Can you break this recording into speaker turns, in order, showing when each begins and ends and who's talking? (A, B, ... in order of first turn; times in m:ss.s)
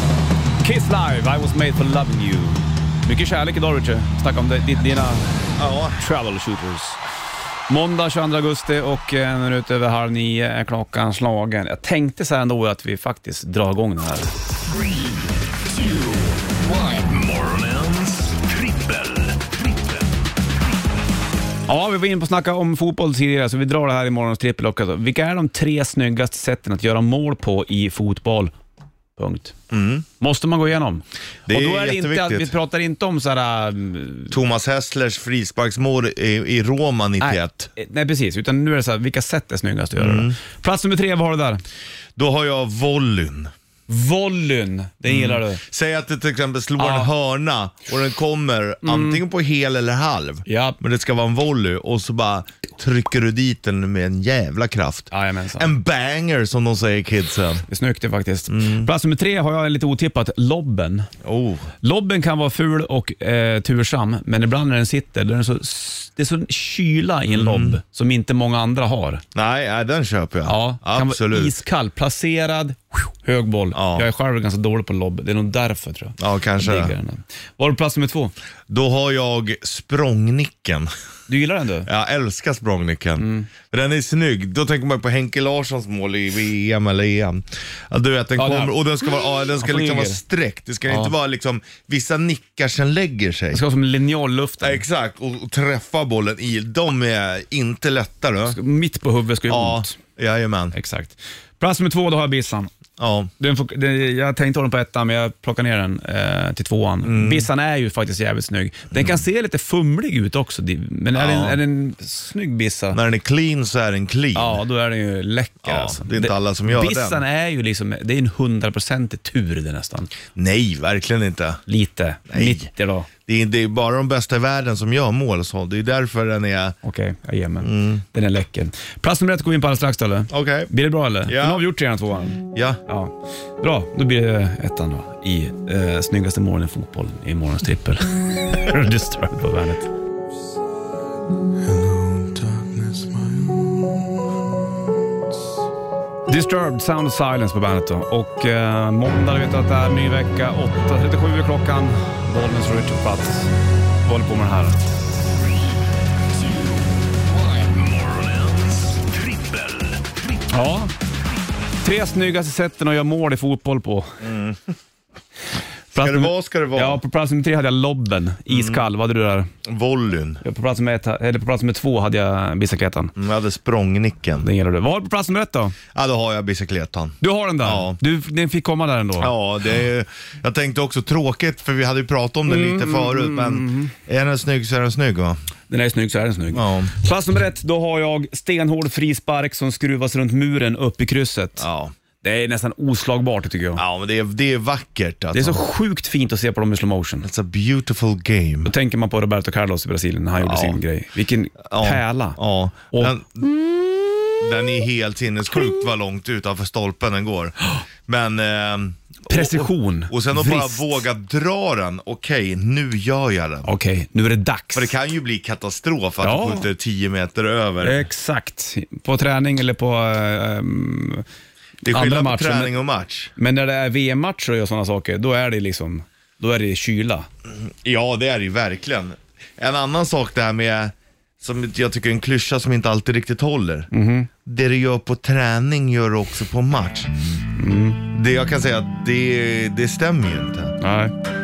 0:00.6-0:05.3 A
0:05.6-0:06.0 B
0:06.0-0:07.0 A
0:07.7-0:14.4 A
0:14.8-0:15.1 C
0:15.7-0:20.2 C
0:21.7-0:28.5 A
0:29.2-0:29.6 A
0:29.7-0:30.1 B
0:30.2-0:34.3 A
0:31.5-0:32.5 B
0:34.3-0:37.7 B
0:37.2-0:41.6 A
0:40.0-0:40.4 B
0:42.2-0:43.5 B
0:43.9-0:45.6 A
0:45.1-0:57.6 B
0:46.8-0:47.1 A
0:48.8-0:49.2 A
0:50.5-0:50.8 A
0:55.1-0:55.7 A
0:57.7-1:01.1 A
0:58.5-0:58.9 B
1:01.2-1:01.7 B
1:01.8-1:09.2 A
1:07.3-1:07.8 B
1:09.4-1:11.6 B
1:10.5-1:18.3 A
1:13.8-1:14.1 B
1:16.2-1:17.0 B
1:18.7-1:20.9 B
1:21.3-1:21.9 A
1:21.8-1:33.6 B
1:23.2-1:23.5 A
1:28.4-1:28.8 A
1:29.6-1:30.2 A
1:33.5-1:34.8 A
1:34.6-1:38.6 B
1:38.5-1:40.0 A
1:39.5-1:40.7 B
1:40.7-1:42.7 A
1:43.0-1:43.3 B
1:43.4-1:53.0 A
1:47.0-1:47.5 B
1:51.2-1:51.6 B
1:52.9-1:54.6 B
1:54.4-2:00.1 A
1:55.6-1:57.2 B
2:00.4-2:01.6 B
2:01.7-2:03.1 A
2:02.3-2:02.7 B
2:03.3-2:06.8 B
2:06.8-2:19.9 A
2:07.6-2:08.0 B
2:10.3-2:10.7 B
2:11.3-2:11.7 B
2:12.5-2:12.8 B
2:21.7-2:23.5 C
2:26.3-2:33.5 A
2:34.0-2:34.8 A
2:36.3-2:40.5 C
2:40.5-2:40.9 A
2:41.8-2:44.2 A
2:44.2-2:44.8 B
2:45.9-2:49.5 A
2:46.0-2:47.0 B
2:48.5-2:48.8 B
2:49.6-2:50.4 B
2:50.4-2:53.1 A
2:53.2-2:54.5 B
2:54.4-2:55.8 A
2:55.9-2:58.0 B
2:57.2-2:59.3 A
2:59.2-3:05.4 B
3:02.5-3:03.9 A
3:05.7-3:11.6 A
3:06.5-3:06.9 B
3:11.6-3:11.9 B
3:12.2-3:13.8 A
3:13.8-3:15.6 B
3:15.3-3:17.3 A
3:17.2-3:18.7 B
3:18.6-3:22.4 A
3:20.4-3:20.8 B
3:21.7-3:23.5 B
3:24.4-3:27.6 B
3:28.1-3:33.7 B
3:29.3-3:31.0 A
3:33.6-3:34.9 A
3:34.7-3:38.0 B
3:36.2-3:36.7 A
3:37.8-3:41.2 A
3:41.8-3:43.3 B
3:41.9-3:42.7 A
3:43.4-3:47.3 A
3:47.5-3:53.9 B
3:53.9-3:54.3 A
3:54.4-3:57.1 B
3:57.6-3:58.0 A
3:58.1-4:00.8 B
4:00.8-4:01.1 A